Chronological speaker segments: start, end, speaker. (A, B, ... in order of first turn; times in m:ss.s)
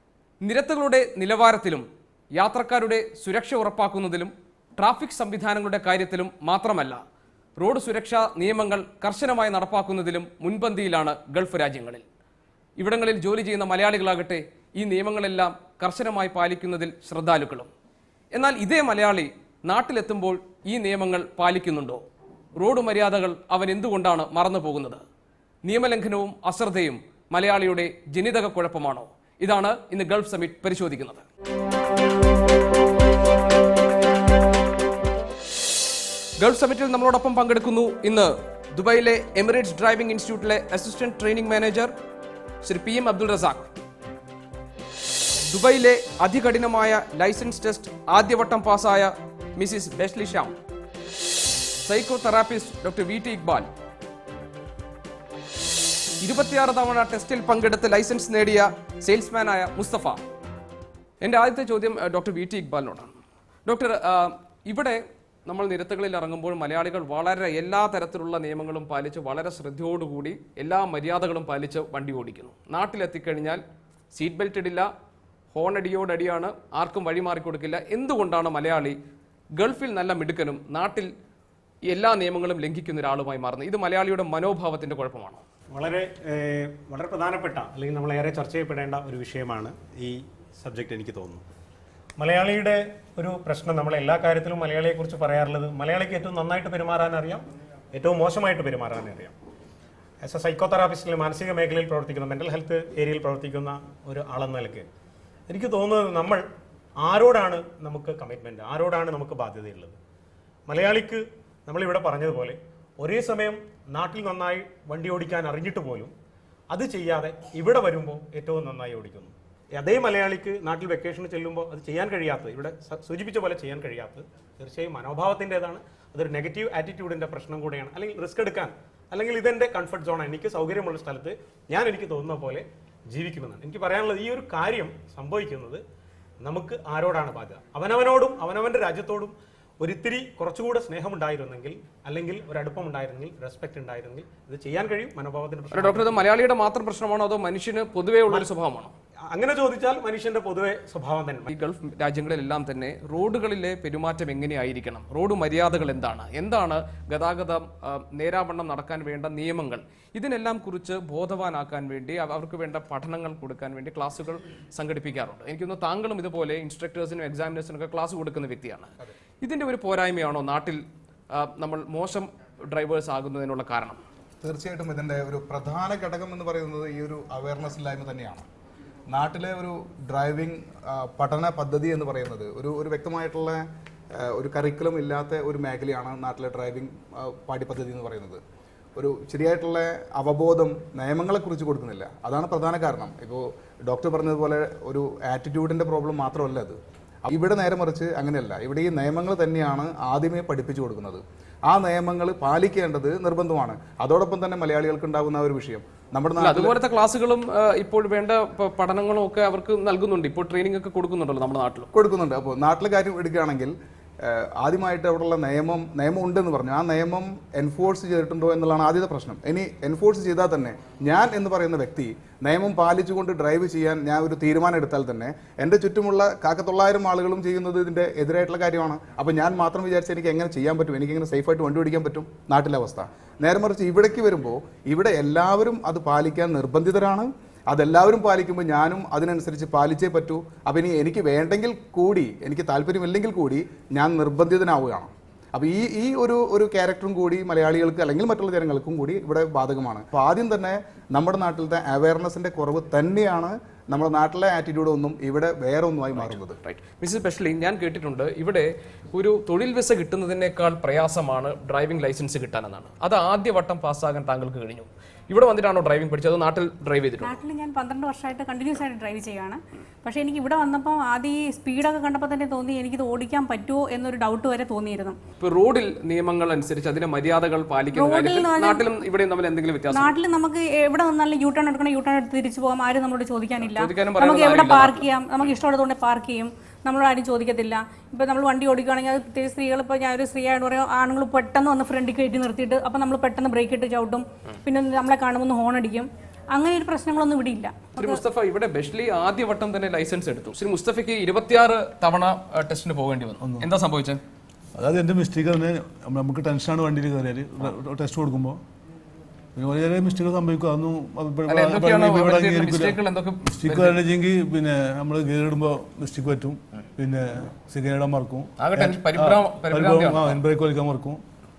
0:00.4-0:07.0 A
0:07.6-0:12.0 A
0:12.8-0:17.7 A
0:18.3-0:22.0 A
0:22.6-0:25.0 A
0:25.6-0:31.2 A
0:36.4-0:41.9 A
0:42.6-0:43.7 A
0:45.5-0:50.6 A
0:51.8-0:53.7 A
0:56.2-1:00.2 A
1:01.2-1:03.1 A
1:03.6-1:13.6 A
1:14.1-1:14.9 A
1:15.5-1:19.0 A
1:19.6-1:21.1 A
1:21.9-1:25.4 A
1:25.7-1:31.4 B
1:32.2-1:39.4 B
1:40.2-1:44.9 B
1:45.5-1:46.4 B
1:47.0-1:50.0 B
1:50.7-1:56.1 B
1:56.7-2:15.8 B
2:16.4-2:26.2 B
2:25.7-2:28.9 A
2:29.3-2:31.5 B
2:31.5-2:54.0 A
2:54.4-2:58.5 C
2:59.1-3:08.4 C
3:09.0-3:26.8 C
3:26.4-3:31.9 A
3:31.9-4:16.6 C
4:16.2-4:27.4 A
4:27.2-4:35.2 D
4:35.4-4:40.1 A
4:37.9-4:38.8 D
4:39.9-4:58.2 D
4:43.6-4:45.0 A
4:58.0-5:04.2 A
5:03.4-5:03.7 E
5:04.8-5:08.6 E
5:09.6-5:21.2 E
5:11.5-5:14.0 A
5:18.6-5:20.4 A